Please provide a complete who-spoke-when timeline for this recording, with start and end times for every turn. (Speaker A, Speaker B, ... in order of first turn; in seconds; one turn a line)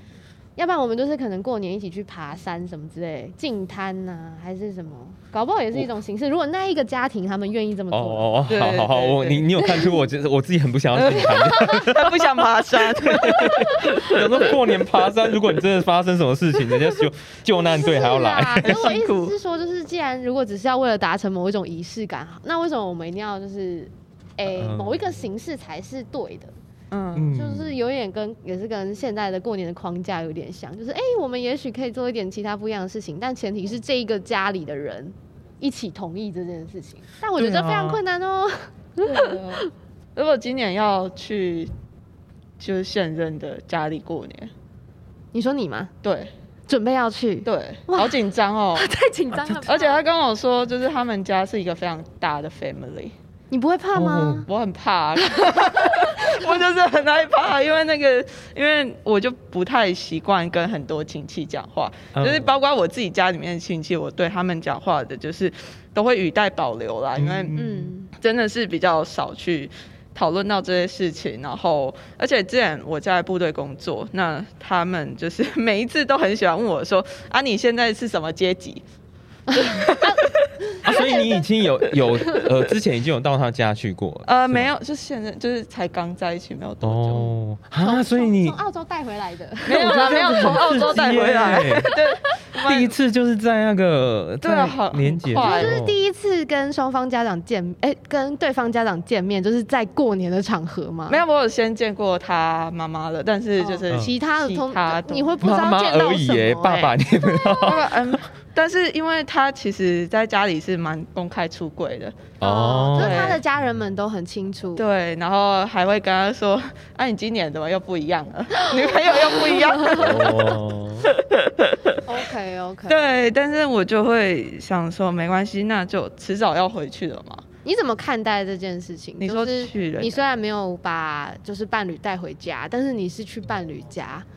Speaker A: 0.6-8.3
Speaker B: 7.9-12.3
Speaker C: 8.5-9.5
Speaker A: 11.1-11.9
Speaker C: 11.1-14.6
Speaker B: 13.0-18.9
Speaker A: 13.1-14.1
Speaker A: 17.6-26.5
Speaker C: 18.6-19.3
Speaker B: 24.5-25.0
Speaker C: 26.9-27.3
Speaker B: 27.1-27.8
Speaker A: 27.3-39.7
Speaker B: 37.4-38.0
Speaker C: 39.0-39.6
Speaker C: 40.1-41.7
Speaker C: 42.6-44.5
Speaker A: 45.3-45.9
Speaker C: 46.0-46.3
Speaker A: 46.7-48.2
Speaker C: 47.4-48.9
Speaker A: 48.7-50.0
Speaker B: 49.4-49.6
Speaker C: 49.6-53.1
Speaker A: 53.5-54.5
Speaker B: 53.9-54.5
Speaker C: 54.5-67.6
Speaker A: 55.3-56.4
Speaker B: 62.1-62.5
Speaker B: 67.2-67.9
Speaker A: 67.5-68.1
Speaker C: 68.1-78.8
Speaker A: 79.5-81.4
Speaker C: 79.5-81.1
Speaker B: 80.8-84.7
Speaker C: 84.2-87.3
Speaker B: 86.8-88.6
Speaker A: 87.8-92.3
Speaker C: 89.7-92.9
Speaker B: 89.7-92.0
Speaker B: 92.6-96.0
Speaker C: 94.4-95.8
Speaker A: 95.4-101.2
Speaker C: 101.1-105.4
Speaker A: 103.6-107.6
Speaker B: 105.4-108.2
Speaker C: 107.6-112.1
Speaker B: 112.4-113.6
Speaker A: 112.4-114.8
Speaker C: 112.9-113.4
Speaker C: 114.8-122.0
Speaker A: 118.5-120.3
Speaker B: 119.9-121.1
Speaker A: 122.0-123.2
Speaker C: 122.9-127.4
Speaker A: 127.6-134.2
Speaker C: 129.2-130.2